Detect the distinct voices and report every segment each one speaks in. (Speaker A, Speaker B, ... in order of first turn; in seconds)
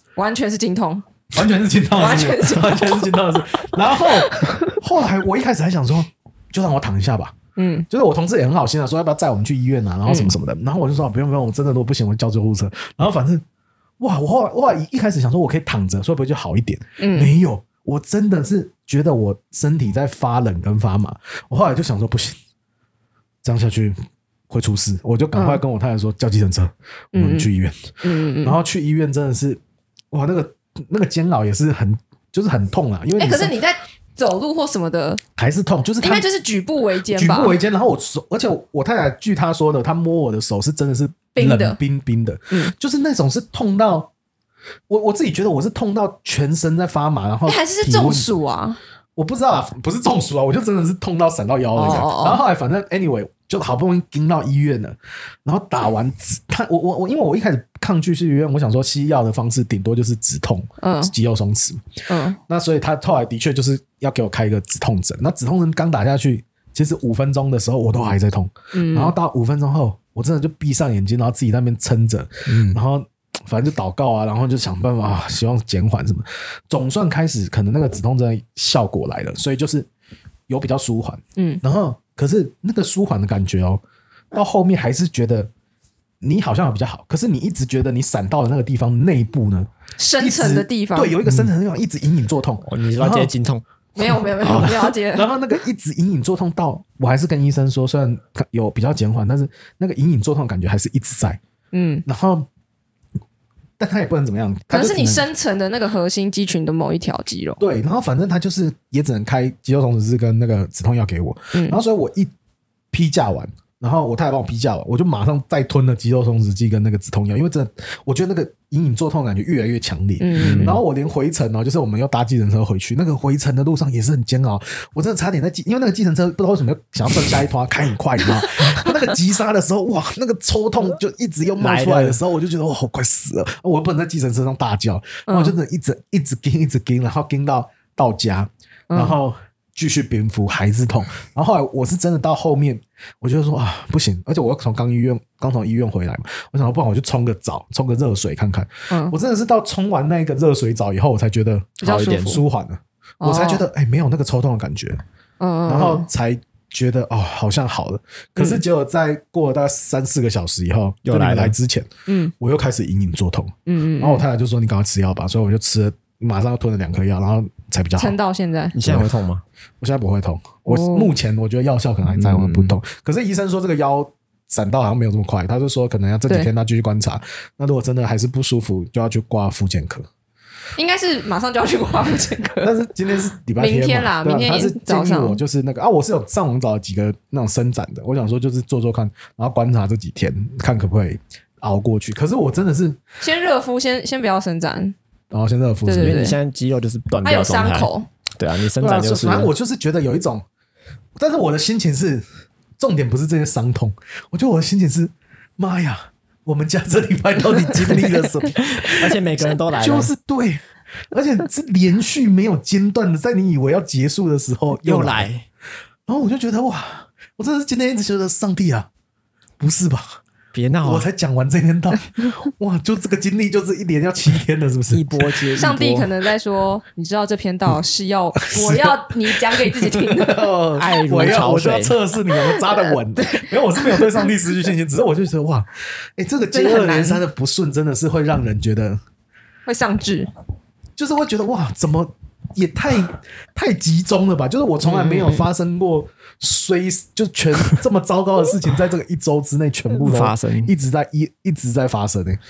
Speaker A: 0.2-1.1, 1.9-3.2, 4.0-4.7, 7.6-7.9, 10.1-10.3, 17.0-17.3, 25.4-25.6, 27.1-27.5, 28.0-28.6, 33.2-35.2, 36.0-37.6, 41.4-41.8, 47.5-48.8, 51.8-52.4, 60.8-61.1, 62.1-62.4, 68.7-69.1, 90.0-91.2, 94.0-95.3, 101.7-102.0, 104.7-107.6, 111.5-111.8, 120.2-120.8, 128.6-128.9, 135.3-135.5, 148.9-149.2, 151.8-152.4, 153.2-153.6, 155.4-156.1, 162.1-162.3, 163.7-164.2, 168.0-168.8, 170.7-171.1, 180.8-182.8, 183.6-185.4, 193.2-194.9, 195.9-196.4, 197.2-198.1, 225.6-230.5, 232.3-234.3, 236.5-237.2, 239.7-240.3, 244.8-245.4
Speaker B: 1.3-7.4, 7.9-13.4, 14.0-22.4, 23.4-24.0, 24.5-29.6, 30.1-33.5, 35.4-36.2, 37.1-44.1, 44.9-48.3, 49.2-61.8, 62.5-79.9, 80.5-85.5, 86.2-93.3, 94.0-101.4, 102.0-102.5, 103.8-105.3, 107.6-112.3, 112.9-155.0, 155.7-161.9, 162.4-168.1, 168.8-169.1, 169.8-180.1, 182.6-193.0, 195.3-196.2, 198.8-200.4, 201.2-202.2, 202.8-209.2, 209.8-210.6, 211.1-215.3, 216.1-218.9, 219.6-220.2, 220.8-225.1, 228.4-239.0, 241.0-252.4
Speaker C: 72.5-72.8, 92.6-93.6, 94.4-94.7, 120.3-120.8, 131.6-132.2, 151.8-152.4, 161.1-161.6, 168.7-169.4, 172.1-172.8, 196.0-199.5, 208.8-210.1, 214.8-215.4, 220.5-221.1, 224.9-226.1, 230.8-232.0, 249.9-250.7